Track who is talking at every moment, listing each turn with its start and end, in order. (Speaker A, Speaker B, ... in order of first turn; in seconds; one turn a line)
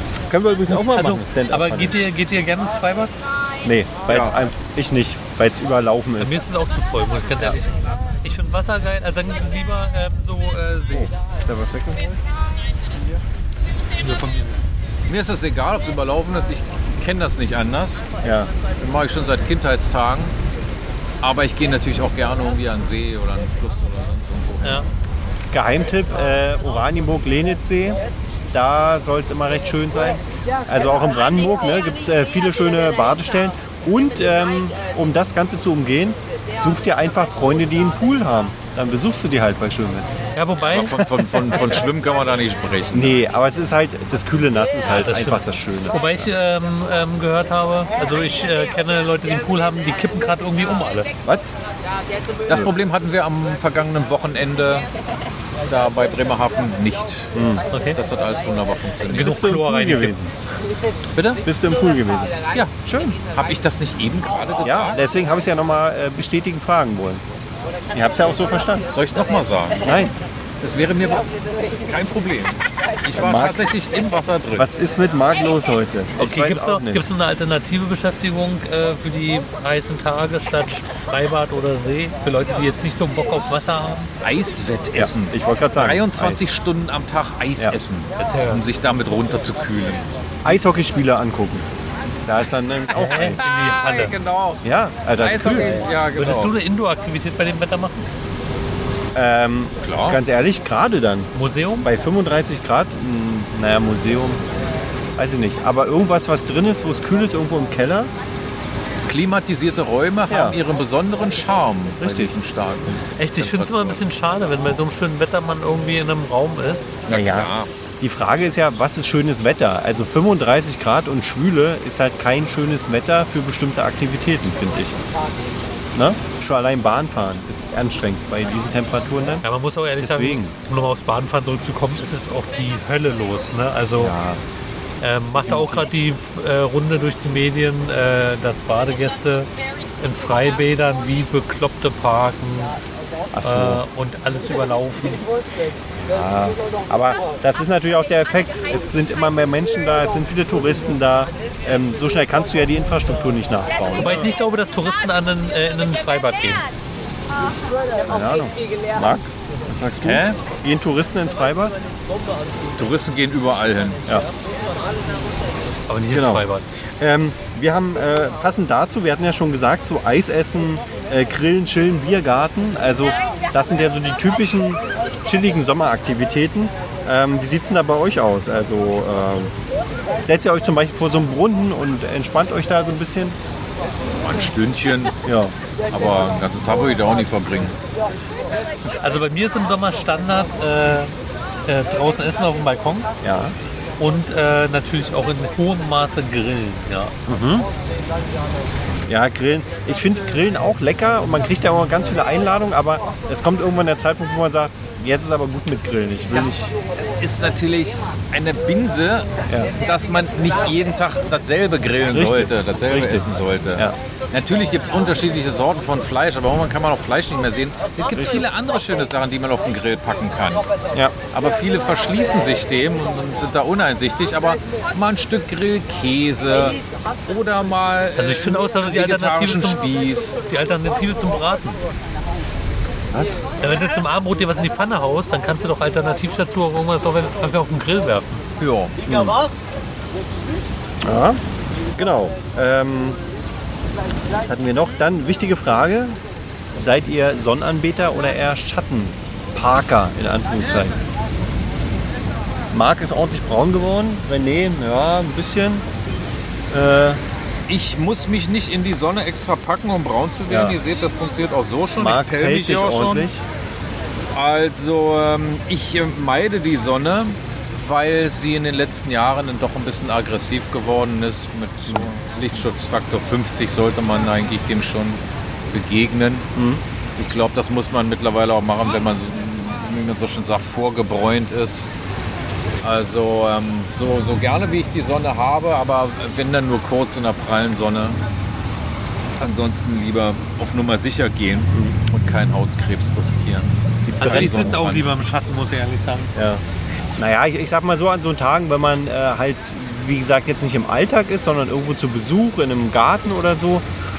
Speaker A: 0.3-2.0
Speaker B: 0.7-3.1
Speaker A: 3.6-6.4
Speaker C: 4.1-4.4
Speaker B: 6.2-11.1
Speaker A: 10.9-12.2
Speaker B: 14.0-14.6
Speaker C: 15.1-18.0
Speaker A: 18.2-18.5
Speaker C: 18.8-20.3
Speaker C: 21.2-24.9
Speaker A: 25.5-28.0
Speaker A: 28.5-40.1
Speaker B: 40.4-41.6
Speaker C: 40.7-43.2
Speaker A: 42.9-46.3
Speaker B: 44.9-51.1
Speaker C: 52.5-54.9
Speaker C: 55.7-57.3
Speaker A: 57.3-57.6
Speaker B: 57.7-58.0
Speaker C: 57.9-59.4
Speaker B: 59.1-60.1
Speaker A: 59.1-60.3
Speaker C: 61.1-61.4
Speaker A: 61.4-63.1
Speaker C: 62.5-65.0
Speaker A: 64.6-67.2
Speaker A: 67.9-68.8
Speaker C: 68.9-69.9
Speaker A: 69.8-70.1
Speaker C: 70.6-71.3
Speaker C: 71.8-74.7
Speaker A: 73.2-73.6
Speaker A: 74.5-77.0
Speaker B: 76.2-84.1
Speaker C: 84.2-90.1
Speaker A: 85.0-86.5
Speaker B: 88.2-88.6
Speaker A: 90.4-91.7
Speaker A: 92.2-93.4
Speaker B: 92.9-94.1
Speaker C: 93.0-94.6
Speaker A: 94.6-95.8
Speaker C: 95.2-96.5
Speaker B: 96.1-98.1
Speaker A: 99.1-101.3
Speaker C: 99.8-100.2
Speaker B: 101.3-101.9
Speaker A: 101.8-104.4
Speaker A: 105.2-108.1
Speaker C: 109.1-114.0
Speaker A: 110.3-110.6
Speaker A: 112.0-112.3
Speaker B: 113.2-116.9
Speaker C: 117.1-117.7
Speaker A: 117.1-125.0
Speaker A: 125.9-129.4
Speaker B: 129.4-134.1
Speaker A: 130.0-130.5
Speaker A: 134.0-134.4
Speaker B: 135.0-139.5
Speaker A: 135.4-135.9
Speaker B: 140.0-142.8
Speaker A: 143.3-143.8
Speaker B: 143.4-145.2
Speaker A: 146.1-154.3
Speaker B: 154.0-156.7
Speaker A: 158.1-161.7
Speaker C: 160.0-160.4
Speaker C: 162.8-164.0
Speaker B: 165.9-166.6
Speaker A: 166.1-166.4
Speaker A: 167.0-179.5
Speaker A: 180.2-183.3
Speaker C: 184.2-185.2
Speaker A: 185.2-185.5
Speaker C: 185.9-187.8
Speaker B: 189.0-191.1
Speaker B: 191.7-193.1
Speaker A: 193.2-193.6
Speaker B: 194.0-197.1
Speaker A: 197.3-197.7
Speaker A: 199.1-206.7
Speaker C: 206.3-220.7
Speaker A: 212.1-214.0
Speaker A: 218.1-218.4
Speaker C: 221.3-230.4
Speaker B: 228.2-231.8
Speaker A: 233.1-233.4
Speaker B: 233.6-238.4
Speaker C: 238.6-238.9
Speaker A: 239.1-239.4
Speaker A: 241.0-241.4
Speaker A: 241.9-243.2
Speaker A: 244.3-246.2
Speaker A: 246.7-250.9
Speaker A: 252.7-255.8
Speaker A: 256.7-257.2
Speaker C: 257.7-263.3
Speaker A: 260.5-260.8
Speaker A: 262.0-263.4
Speaker C: 264.3-276.5
Speaker A: 276.5-276.8
Speaker C: 277.2-281.9
Speaker C: 282.8-288.2
Speaker C: 289.4-295.1
Speaker A: 294.1-294.8
Speaker B: 294.2-296.3
Speaker A: 296.3-296.6
Speaker A: 297.1-303.9